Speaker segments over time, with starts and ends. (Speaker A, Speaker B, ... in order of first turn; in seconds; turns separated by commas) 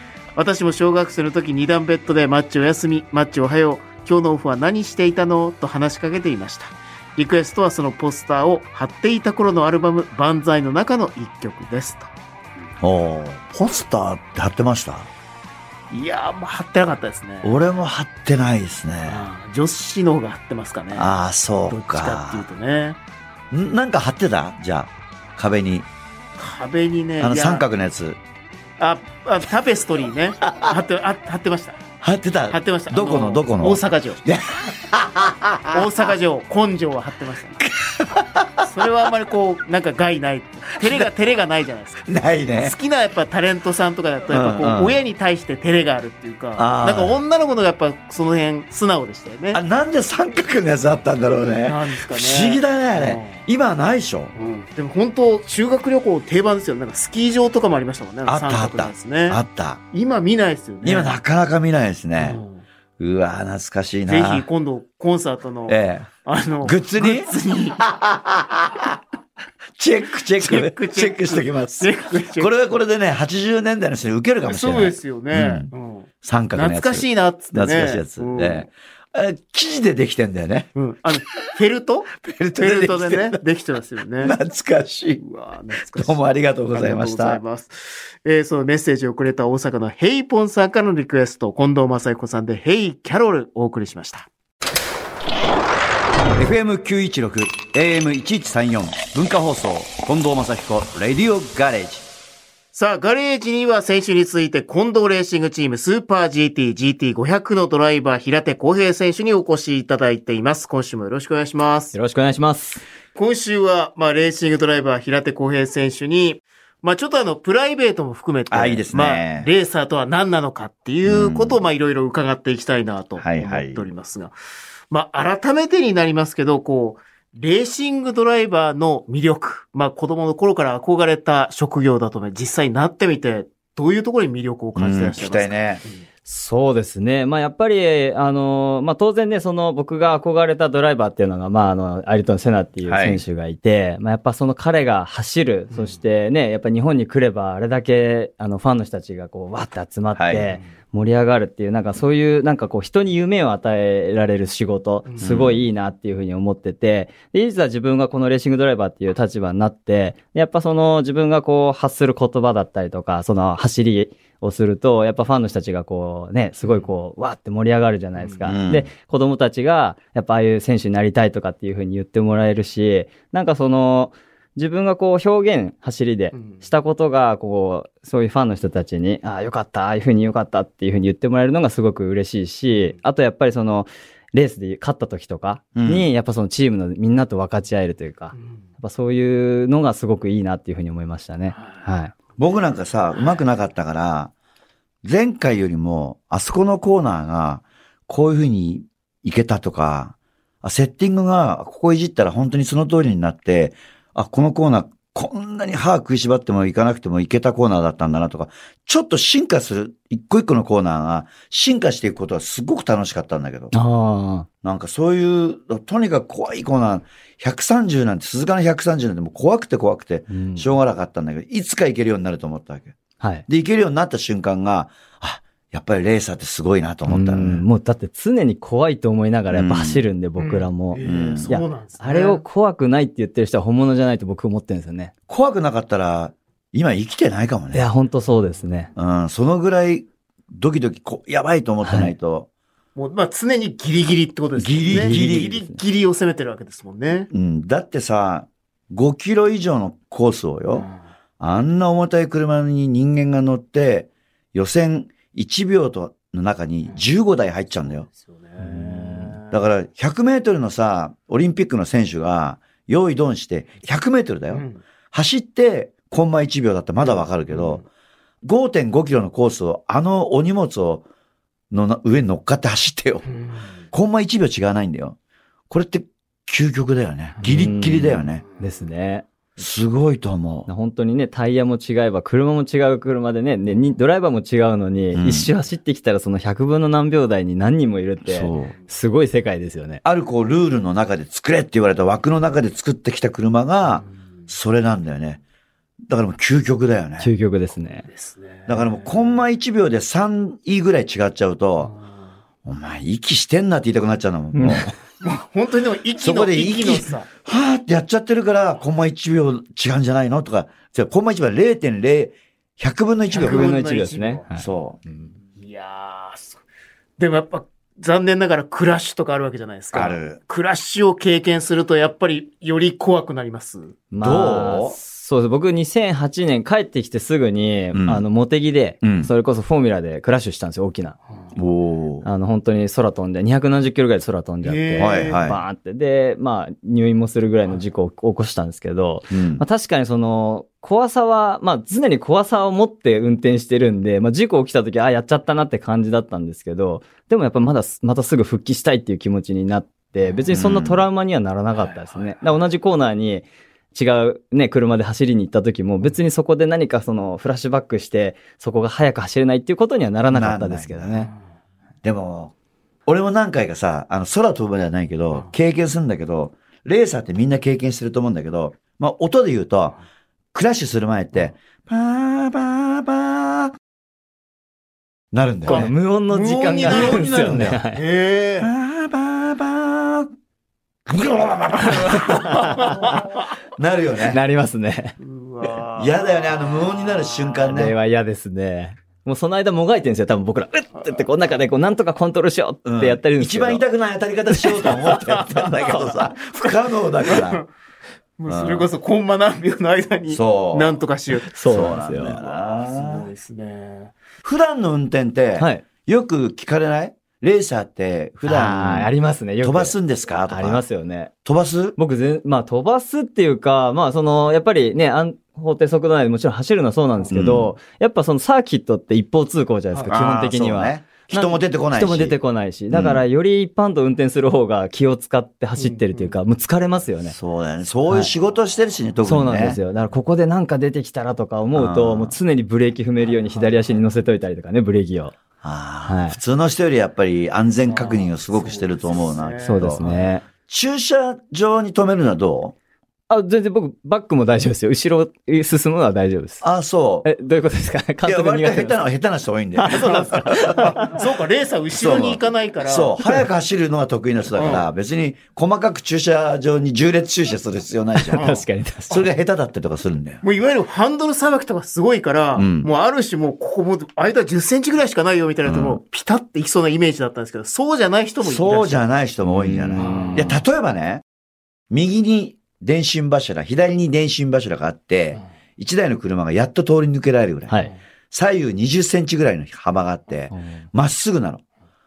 Speaker A: 0.3-12.1, Speaker B: 12.8-15.1, Speaker A: 15.9-17.5, Speaker B: 17.4-19.2, Speaker A: 19.1-21.1, Speaker B: 20.9-22.5, Speaker A: 21.7-23.0, Speaker B: 23.5-25.9, Speaker A: 26.4-27.7, Speaker B: 27.2-28.2, Speaker A: 28.8-31.8, Speaker B: 30.5-30.8, Speaker B: 32.0-36.0, Speaker A: 32.5-34.2, Speaker A: 35.7-37.6, Speaker B: 37.6-38.9, Speaker A: 38.6-49.6, Speaker B: 40.8-41.1, Speaker B: 42.1-42.8, Speaker B: 44.3-45.0, Speaker B: 46.6-47.2, Speaker B: 49.5-54.3, Speaker A: 51.6-53.5, Speaker A: 54.4-59.4, Speaker B: 58.3-59.8, Speaker A: 59.9-61.2, Speaker B: 60.8-62.4, Speaker A: 62.2-62.6, Speaker B: 63.0-64.5, Speaker A: 64.1-67.8, Speaker B: 65.7-66.1, Speaker B: 66.6-69.0, Speaker B: 69.8-75.7, Speaker A: 70.4-72.5, Speaker A: 74.5-78.7, Speaker B: 76.2-80.7, Speaker A: 80.8-84.4, Speaker B: 82.2-83.4, Speaker B: 84.2-85.2, Speaker A: 85.2-86.2, Speaker B: 85.9-87.4, Speaker A: 86.7-94.3, Speaker B: 96.3-102.0, Speaker A: 102.7-111.9, Speaker C: 111.9-112.8, Speaker A: 113.2-124.3, Speaker B: 118.5-119.5, Speaker B: 121.0-121.6, Speaker B: 123.2-123.9, Speaker A: 124.9-136.0, Speaker B: 134.8-135.8, Speaker C: 136.3-192.1, Speaker B: 142.8-143.2, Speaker A: 145.7-146.0, Speaker B: 150.2-150.6, Speaker A: 155.1-155.3, Speaker B: 155.2-155.7, Speaker A: 166.6-166.9, Speaker A: 168.2-168.5, Speaker B: 168.4-168.9, Speaker A: 176.3-176.6, Speaker B: 185.8-186.1, Speaker A: 191.6-191.8, Speaker B: 192.4-194.3, Speaker B: 195.0-213.7, Speaker C: 213.7-214.5, Speaker B: 214.6-223.0, Speaker C: 220.3-220.7, Speaker C: 223.2-223.4, Speaker B: 223.5-227.6, Speaker C: 227.1-235.1, Speaker B: 229.5-230.0, Speaker A: 230.4-232.4, Speaker B: 231.0-231.6, Speaker B: 235.3-237.9, Speaker C: 237.7-238.9, Speaker B: 238.9-242.5, Speaker C: 241.8-242.1, Speaker A: 242.9-247.3, Speaker B: 244.6-245.6, Speaker C: 244.9-245.8, Speaker B: 247.3-250.9, Speaker A: 250.7-250.9, Speaker B: 251.4-258.1, Speaker A: 257.9-259.6, Speaker C: 258.7-259.4, Speaker B: 259.5-267.8, Speaker A: 264.5-264.8, Speaker A: 267.0-267.8, Speaker B: 268.4-271.1, Speaker B: 271.7-273.3, Speaker A: 273.3-273.8, Speaker B: 273.9-275.2, Speaker B: 275.7-278.4, Speaker C: 277.4-279.3, Speaker B: 279.6-280.7, Speaker C: 280.7-290.0, Speaker B: 285.1-285.5, Speaker B: 288.2-288.7, Speaker B: 290.1-295.4, Speaker B: 296.1-297.3, Speaker C: 297.2-298.1, Speaker A: 298.1-299.2, Speaker B: 298.7-301.9, Speaker A: 301.8-302.1, Speaker B: 302.6-304.9, Speaker C: 304.5-304.9, Speaker A: 305.2-307.3, Speaker B: 306.2-313.7, Speaker A: 313.3-314.5, Speaker C: 313.3-315.3, Speaker B: 314.6-315.0, Speaker A: 315.5-316.6, Speaker A: 317.2-324.0, Speaker B: 319.9-320.4, Speaker C: 324.1-331.2, Speaker B: 324.2-325.0, Speaker B: 327.9-328.2, Speaker B: 329.0-329.3, Speaker B: 331.6-332.3, Speaker C: 332.2-361.3, Speaker A: 334.6-335.4, Speaker B: 335.0-335.6, Speaker B: 339.3-339.6, Speaker B: 350.5-351.0, Speaker A: 351.8-352.4, Speaker B: 360.3-361.1, Speaker B: 362.0-362.5, Speaker B: 363.1-370.0, Speaker B: 370.5-373.7, Speaker B: 375.3-375.9, Speaker A: 375.7-377.4, Speaker C: 375.7-378.0, Speaker B: 376.5-377.8, Speaker A: 377.9-378.7, Speaker B: 378.6-380.3, Speaker B: 381.1-384.4, Speaker A: 381.9-383.4, Speaker C: 382.2-383.2, Speaker C: 384.3-385.2, Speaker A: 385.2-387.7, Speaker B: 385.9-387.9, Speaker C: 387.7-393.8, Speaker B: 392.9-397.6, Speaker C: 394.5-395.0, Speaker A: 395.0-396.2, Speaker A: 397.2-397.7, Speaker A: 398.4-401.5, Speaker B: 398.5-398.9, Speaker B: 400.3-401.0, Speaker C: 401.4-402.4, Speaker B: 401.6-403.3, Speaker A: 402.2-404.1, Speaker B: 404.4-410.8, Speaker C: 405.6-405.9, Speaker C: 408.5-409.9, Speaker C: 410.5-411.3, Speaker B: 411.4-412.0, Speaker C: 412.0-427.4, Speaker B: 417.3-417.8, Speaker B: 420.1-422.4, Speaker B: 422.9-423.2, Speaker A: 425.8-426.4, Speaker B: 427.3-429.8, Speaker C: 429.2-435.4, Speaker B: 431.8-432.4, Speaker B: 435.6-442.8, Speaker C: 436.1-436.4, Speaker A: 437.9-440.0, Speaker C: 439.6-440.4, Speaker C: 443.3-446.6, Speaker B: 446.6-447.3, Speaker C: 447.2-449.0, Speaker B: 448.2-451.1, Speaker C: 449.8-451.2, Speaker A: 449.9-453.2, Speaker B: 451.9-458.5, Speaker A: 454.6-454.9, Speaker C: 458.2-459.2, Speaker A: 458.4-459.2, Speaker B: 459.1-460.4, Speaker A: 460.4-469.0, Speaker B: 462.6-462.9, Speaker B: 465.7-466.0, Speaker B: 468.4-471.2, Speaker C: 469.5-470.6, Speaker A: 470.0-470.6, Speaker B: 471.9-481.6, Speaker C: 480.5-480.9